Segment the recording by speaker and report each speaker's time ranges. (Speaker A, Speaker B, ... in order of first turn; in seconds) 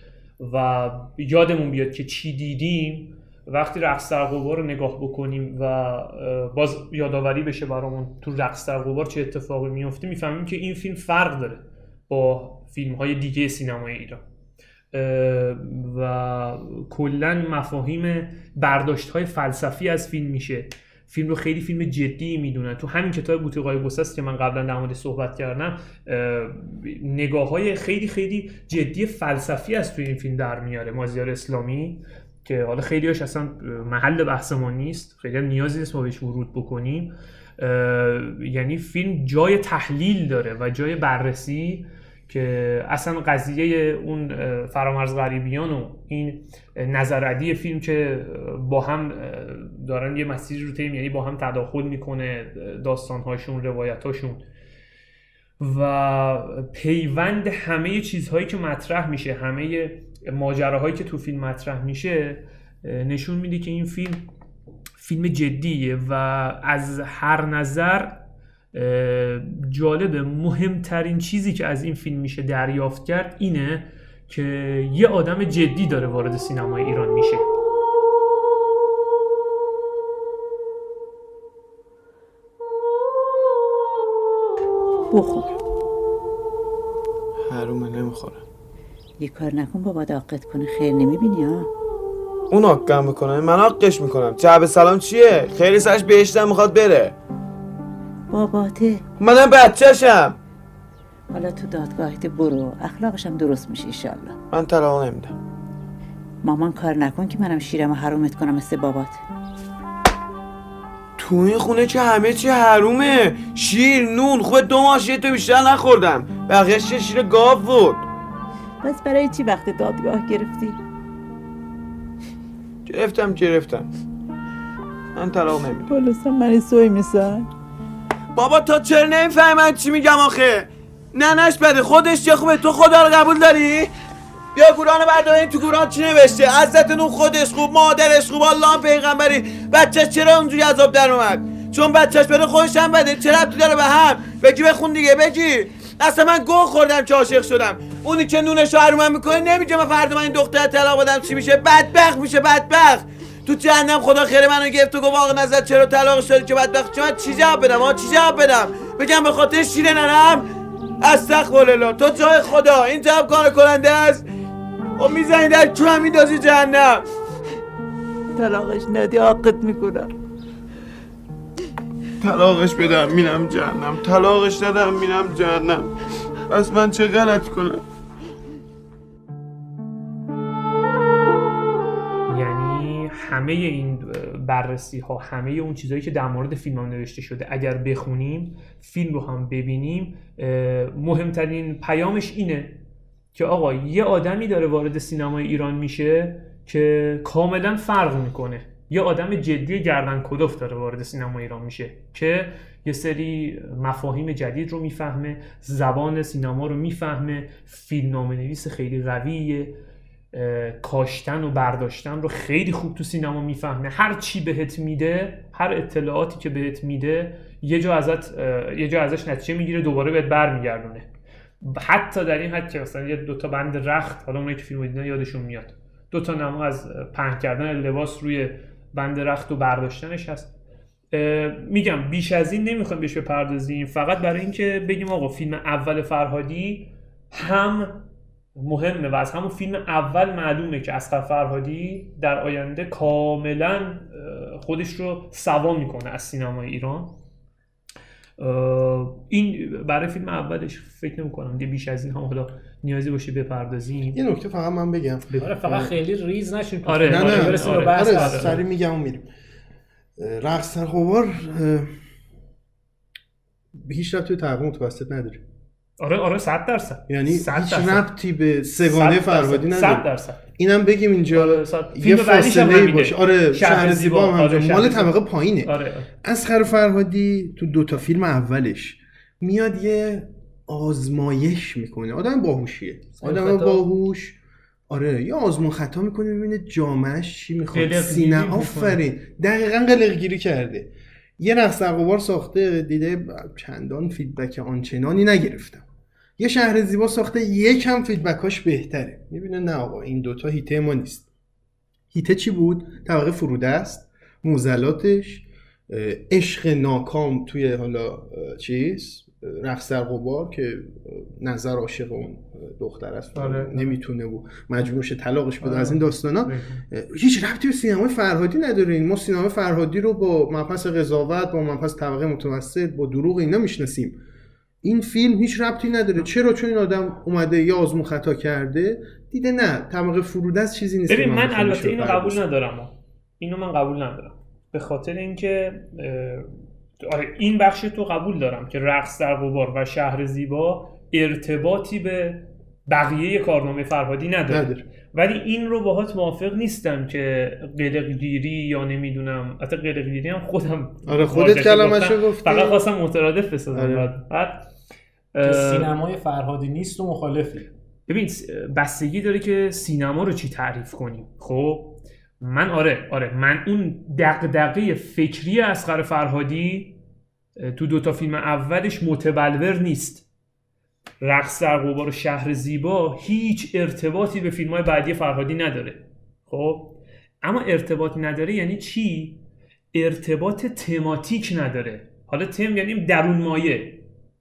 Speaker A: 0.4-14.2, 14.9-54.4, 55.6-64.3, 65.0-68.2, 68.7-77.5, 182.3-192.8, 193.3-209.8, 210.3-221.1, 221.6-230.5, 231.1-238.1, 238.6-247.2, 248.4-254.2, 255.3-255.6, 256.9-258.6, 266.0-268.1, 268.8-270.4, 271.3-276.1, 283.2-283.9, 287.7-289.0, 313.4-314.0, 315.6-316.8, 331.1-336.5, 337.0-354.7, 355.4-355.9, 358.1-367.0, 367.6-370.3, 371.2-379.4, 379.9-384.0
Speaker B: 85.1-85.5, 89.2-91.7, 98.3-99.0, 101.3-104.4, 106.4-109.2, 118.8-120.8, 125.9-127.5, 168.4-170.1
Speaker C: 87.4-88.4, 92.5-97.2, 99.2-100.4, 104.5-105.3, 111.2-118.0, 122.9-123.9, 125.2-125.9, 128.3-133.9, 134.6-160.5, 161.0-164.2, 165.0-167.0, 172.2-175.9, 176.5-177.8
Speaker D: 254.1-255.9, 257.1-259.3, 260.2-261.9, 263.8-265.4, 267.1-284.4, 284.9-295.8, 296.4-301.3, 302.1-324.2, 324.8-332.4, 344.5-344.9, 351.1-352.8, 353.7-354.1
Speaker E: 255.4-258.6, 355.4-357.7